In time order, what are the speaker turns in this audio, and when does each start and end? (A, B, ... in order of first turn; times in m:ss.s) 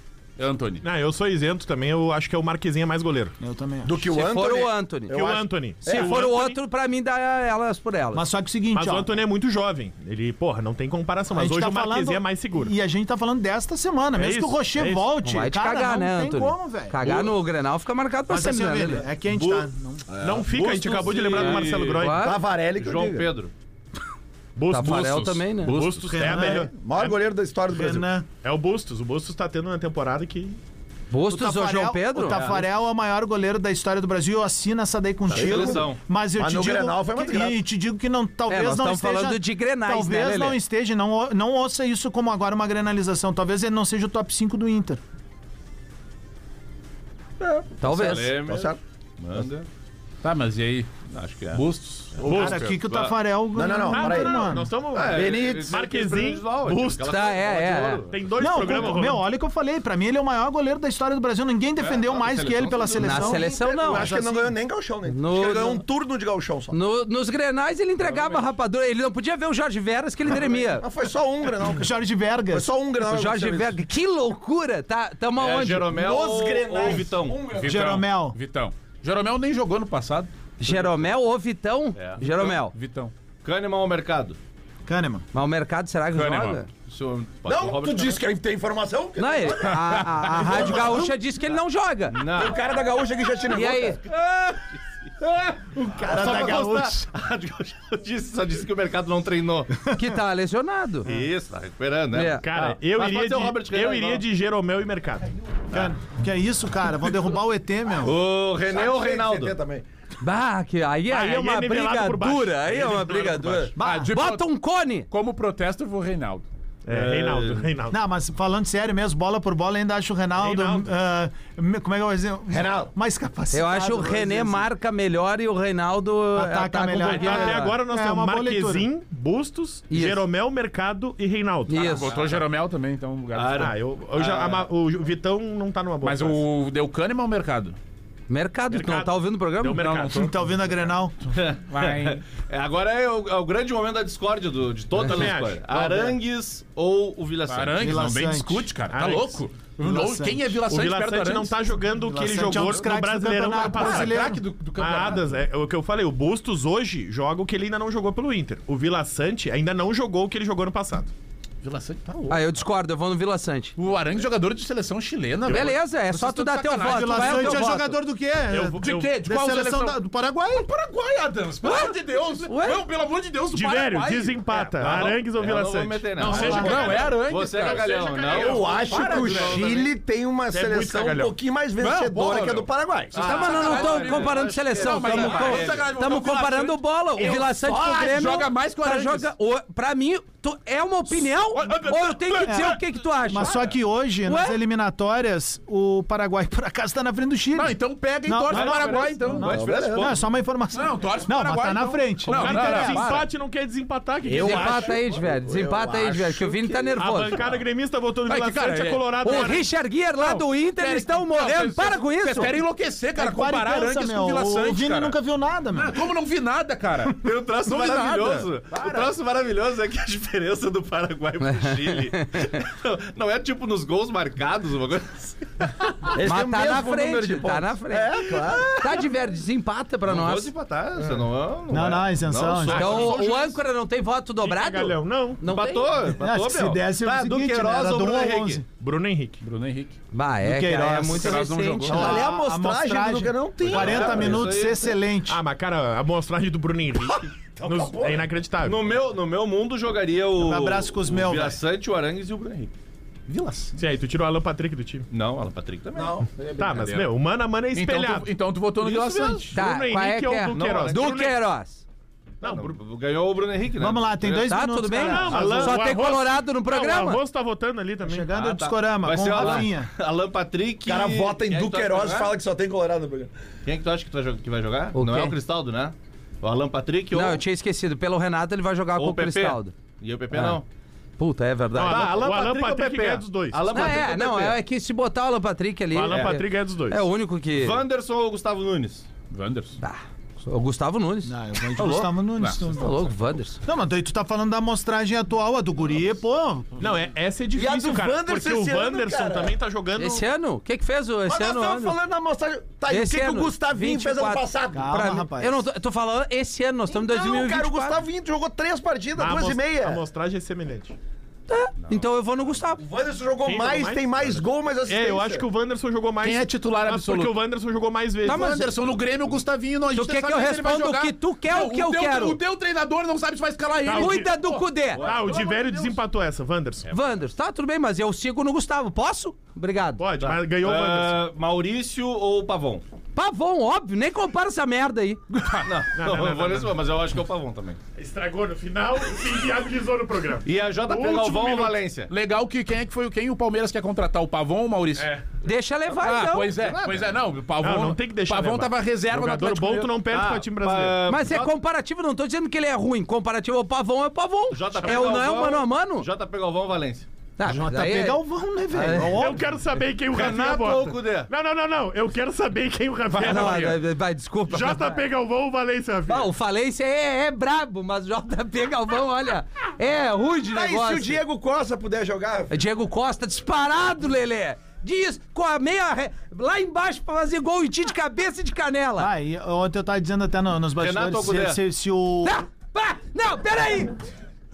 0:00.4-0:00.8 A
0:00.8-0:03.3 B
0:03.4-0:04.0 C
0:03.8-0:06.3 D
0:04.1-0:05.2 E
0:05.1-0:06.6 B
0:05.8-0:08.2 E
0:08.1-0:09.1 C
0:08.7-0:12.7 B
0:11.3-0:17.0 C
0:14.2-0:15.1 B
0:15.2-0:19.0 E
0:17.0-0:17.3 F
0:18.3-0:20.0 C
0:19.3-0:19.7 F
0:20.1-0:20.5 D
0:20.2-0:22.4 B
0:20.2-0:22.2 F
0:21.4-0:23.3 D
0:22.0-0:22.4 E
0:22.8-0:23.5 F
0:24.6-0:27.2 B
0:24.7-0:25.8 E
0:24.8-0:26.3 A
0:26.0-0:26.7 C
0:26.3-0:28.1 D
0:27.7-0:28.3 C
0:28.4-0:30.6 B
0:31.1-0:32.4 E
0:31.3-0:45.0 C
0:32.2-0:32.7 F
0:35.3-0:36.0 F
0:35.3-0:37.6 D
0:38.5-0:40.6 E
0:47.4-0:49.7 F
0:47.8-0:48.4 E
0:48.4-0:48.8 D
0:50.2-0:50.9 A
0:51.1-0:53.2 F
0:51.5-0:52.8 A
0:52.2-0:54.7 C
0:52.3-0:52.6 B
0:53.6-0:55.7 D
0:53.9-0:57.1 B
0:54.9-0:58.9 F
0:57.1-0:58.0 E
0:58.1-0:59.2 B
0:58.4-1:04.5 C
1:01.8-1:03.0 F
1:02.9-1:06.8 D
1:03.0-1:04.1 E
1:05.1-1:05.8 E
1:06.7-1:10.8 E
1:10.8-1:11.9 D
1:11.7-1:12.7 C
1:12.5-1:13.8 D
1:13.1-1:15.9 E
1:15.4-1:17.4 F
1:15.9-1:17.9 D
1:17.6-1:20.3 A
1:17.6-1:18.4 C
1:20.6-1:22.7 E
1:22.2-1:23.1 A
1:23.4-1:24.4 F
1:24.9-1:25.2 C
1:25.3-1:26.7 E
1:26.1-1:26.6 A
1:26.9-1:28.2 F
1:27.5-1:31.1 D
1:29.2-1:32.2 E
1:32.1-1:32.7 F
1:32.2-1:34.0 D
1:33.5-1:34.0 E
1:34.1-1:39.7 F
1:35.8-1:36.8 B
1:36.0-1:37.1 C
1:39.9-1:41.1 E
1:41.1-1:44.2 F
1:42.1-1:42.4 E
1:42.3-1:45.3 B
1:45.7-1:48.1 C
1:48.0-1:49.6 F
1:48.6-1:49.8 D
1:50.2-1:55.1 E
1:51.1-1:53.7 B
1:53.8-1:54.1 C
1:53.8-1:54.5 A
1:55.1-1:56.4 A
1:56.9-1:58.0 B
1:56.9-1:57.7 F
1:57.9-2:04.7 C
2:00.4-2:00.9 B
2:02.5-2:02.9 D
2:03.5-2:07.7 E
2:06.4-2:08.9 C
2:07.0-2:12.2 B
2:09.9-2:10.2 E
2:11.7-2:12.1 E
2:11.7-2:13.7 A
2:13.3-2:14.7 F
2:13.5-2:16.4 B
2:16.0-2:17.8 A
2:18.3-2:20.1 E
2:18.7-2:20.3 B
2:19.8-2:20.2 A
2:20.1-2:21.3 C
2:21.3-2:28.2 F
2:21.7-2:22.2 A
2:25.0-2:26.1 B
2:27.5-2:31.6 A
2:27.8-2:28.7 C
2:28.9-2:29.5 B
2:29.8-2:30.6 C
2:30.6-2:41.1 B
2:32.0-2:34.4 C
2:33.6-2:35.4 A
2:41.6-2:42.4 A
2:42.3-2:43.7 E
2:43.8-2:47.9 A
2:45.5-2:45.7 B
2:45.5-2:48.0 E
2:46.8-2:50.7 C
2:48.5-2:49.2 B
2:48.7-2:50.0 A
2:50.6-2:55.1 A
2:51.6-2:51.9 E
2:52.4-2:52.8 E
2:53.5-2:59.8 B
2:54.8-2:59.8 F
2:56.2-2:59.7 A
2:56.3-2:57.0 D
2:58.3-3:03.8 D
3:00.5-3:01.4 B
3:01.8-3:09.3 A
3:03.1-3:06.0 F
3:03.2-3:13.6 E
3:11.5-3:12.8 A
3:12.5-3:12.8 C
3:13.3-3:23.1 C
3:14.3-3:14.6 E
3:17.6-3:19.5 A
3:18.5-3:19.3 B
3:18.6-3:20.2 F
3:19.4-3:20.2 D
3:20.7-3:23.3 A
3:22.3-3:25.0 B
3:24.2-3:26.9 D
3:24.3-3:27.4 E
3:27.0-3:29.7 B
3:28.3-3:29.2 A
3:29.2-3:32.6 E
3:30.1-3:35.2 A
3:33.2-3:36.0 C
3:35.7-3:39.0 A
3:37.2-3:45.6 F
3:41.4-3:42.3 E
3:46.0-3:49.1 D
3:46.2-3:50.5 E
3:50.1-3:53.2 F
3:51.7-3:53.0 C
3:52.6-3:53.6 B
3:52.7-3:55.9 E
3:54.4-3:55.6 B
3:55.5-3:58.6 F
3:56.2-3:58.6 C
3:58.8-3:59.4 B
3:59.4-4:00.0 A
4:00.1-4:02.2 E
4:00.4-4:05.4 C
4:01.0-4:02.1 A
4:01.9-4:04.6 D
4:03.6-4:04.9 F
4:05.3-4:08.9 B
4:07.1-4:08.3 D
4:08.6-4:12.7 F
4:10.4-4:11.6 C
4:13.3-4:13.8 A
4:13.8-4:15.1 B
4:15.1-4:16.2 F
4:16.0-4:16.8 D
4:16.6-4:18.3 B
4:16.7-4:17.1 A
4:17.7-4:19.6 A
4:18.8-4:19.5 F
4:19.4-4:21.4 B
4:19.6-4:21.8 E
4:20.5-4:21.0 F
4:22.4-4:22.8 B
4:22.4-4:25.8 F
4:23.8-4:25.7 C
4:24.5-4:27.2 E
4:24.9-4:28.3 B
4:28.0-4:29.9 C
4:28.3-4:32.4 F
4:29.4-4:29.7 E
4:30.8-4:33.3 D
4:33.6-4:37.4 F
4:34.9-4:35.3 E
4:37.1-4:39.7 E
4:39.0-4:40.7 F
4:40.3-4:40.6 E
4:41.2-4:42.2 E
4:41.7-4:43.8 B
4:41.8-4:44.6 F
4:43.7-4:47.8 E
4:45.9-4:47.0 B
4:47.6-4:49.1 F
4:49.3-4:49.8 A
4:49.8-4:52.1 E
4:51.3-4:53.1 C
4:52.4-4:52.7 A
4:52.7-4:53.6 E
4:53.6-4:56.8 C
4:56.8-5:00.2 B
4:57.5-4:59.6 D
5:00.0-5:02.0 E
5:01.3-5:05.0 D
5:02.9-5:08.0 E
5:04.7-5:05.7 C
5:06.9-5:10.0 D
5:09.2-5:11.0 B
5:11.5-5:12.8 E
5:11.8-5:12.6 F
5:12.8-5:15.4 D
5:13.4-5:14.1 B
5:14.9-5:18.7 B
5:16.2-5:17.4 A
5:18.3-5:18.6 E
5:18.3-5:26.0 A
5:19.9-5:22.4 E
5:23.8-5:24.4 B
5:23.9-5:25.0 E
5:25.0-5:25.4 F
5:25.0-5:26.9 B
5:26.9-5:30.0 E
5:30.0-5:31.3 B
5:30.2-5:32.8 F
5:33.2-5:35.2 E
5:35.3-5:35.7 A
5:35.6-5:37.8 F
5:36.0-5:36.7 B
5:38.0-5:41.8 B
5:40.4-5:42.1 F
5:42.1-5:45.1 A
5:45.4-5:46.5 E
5:46.0-5:50.0 A
5:46.6-5:47.2 F
5:47.6-5:51.0 B
5:50.1-5:51.5 F
5:51.1-5:56.1 E
5:54.5-5:57.1 F
5:57.4-5:59.2 E
5:57.4-5:59.4 C
5:59.0-6:03.8 B
6:00.1-6:01.3 F
6:03.2-6:03.5 A
6:03.2-6:05.0 E
6:04.5-6:06.3 B
6:06.1-6:11.2 E
6:10.5-6:12.5 D
6:12.5-6:19.1 E
6:19.0-6:22.4 C
6:20.8-6:21.6 F
6:22.2-6:24.0 E